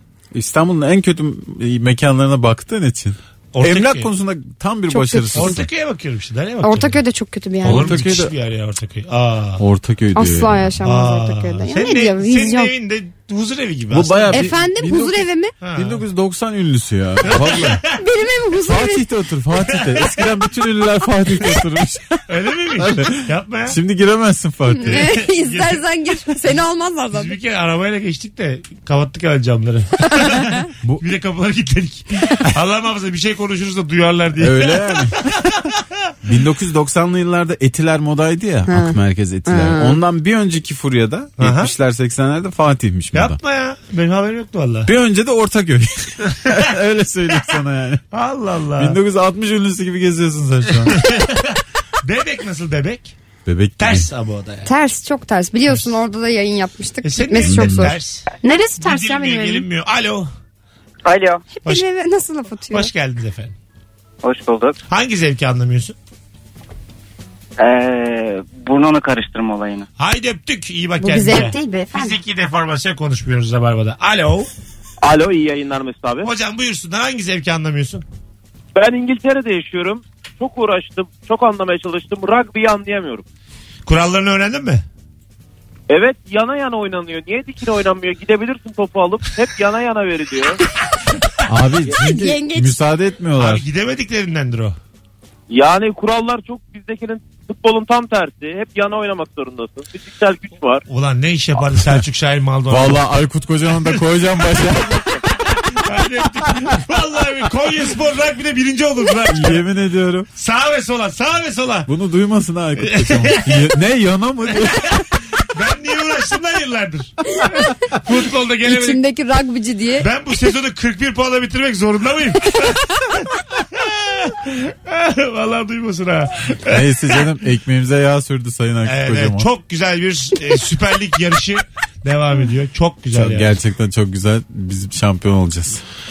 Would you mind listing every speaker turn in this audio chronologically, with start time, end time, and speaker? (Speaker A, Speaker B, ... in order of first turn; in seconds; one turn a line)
Speaker A: 0.3-5.7
Speaker B: 3.5-4.1
Speaker C: 4.9-5.6
Speaker B: 5.3-7.0
Speaker C: 6.6-8.0
Speaker B: 7.6-9.6
Speaker A: 7.6-8.3
Speaker A: 9.6-10.7
Speaker C: 10.1-12.7
Speaker B: 10.8-14.5
Speaker A: 13.9-17.8
Speaker C: 14.3-15.5
Speaker B: 15.6-16.0
Speaker B: 17.2-17.9
Speaker C: 17.9-19.1
Speaker A: 18.7-22.2
Speaker B: 19.6-20.2
Speaker B: 22.3-23.8
Speaker A: 22.7-25.1
Speaker C: 24.8-27.4
Speaker B: 24.9-25.8
Speaker B: 27.1-35.8
Speaker C: 30.0-30.5
Speaker A: 34.4-35.5
Speaker A: 36.2-43.4
Speaker C: 38.7-40.0
Speaker B: 41.4-41.7
Speaker B: 43.1-44.9
Speaker A: 44.9-48.0
Speaker B: 46.3-46.7
Speaker B: 48.1-49.0
Speaker A: 48.8-51.0
Speaker B: 50.9-53.1
Speaker A: 53.5-54.1
Speaker B: 53.8-54.7
Speaker C: 54.6-59.6
Speaker B: 57.0-58.3
Speaker A: 57.4-57.9
Speaker B: 58.8-60.3
Speaker D: 61.0-61.4
Speaker C: 61.5-62.9
Speaker B: 62.7-63.5
Speaker D: 64.2-64.8
Speaker B: 64.9-66.0
Speaker D: 67.6-69.9
Speaker B: 70.0-74.5
Speaker C: 71.0-72.2
Speaker E: 75.0-76.3
Speaker B: 76.2-78.0
Speaker E: 78.7-83.2
Speaker B: 83.8-84.8
Speaker E: 85.9-90.6
Speaker A: 91.4-93.6
Speaker C: 91.9-92.8
Speaker B: 93.4-94.8
Speaker E: 95.5-100.8
Speaker B: 100.9-103.0
Speaker A: 102.7-105.2
Speaker B: 103.9-109.6
Speaker A: 109.3-110.3
Speaker B: 110.3-111.9
Speaker A: 111.9-115.1
Speaker B: 112.8-113.8
Speaker B: 115.5-119.0
Speaker C: 117.3-117.7
Speaker C: 118.7-120.1
Speaker B: 120.0-127.2
Speaker A: 126.7-129.5
Speaker B: 128.8-133.6
Speaker A: 133.1-135.8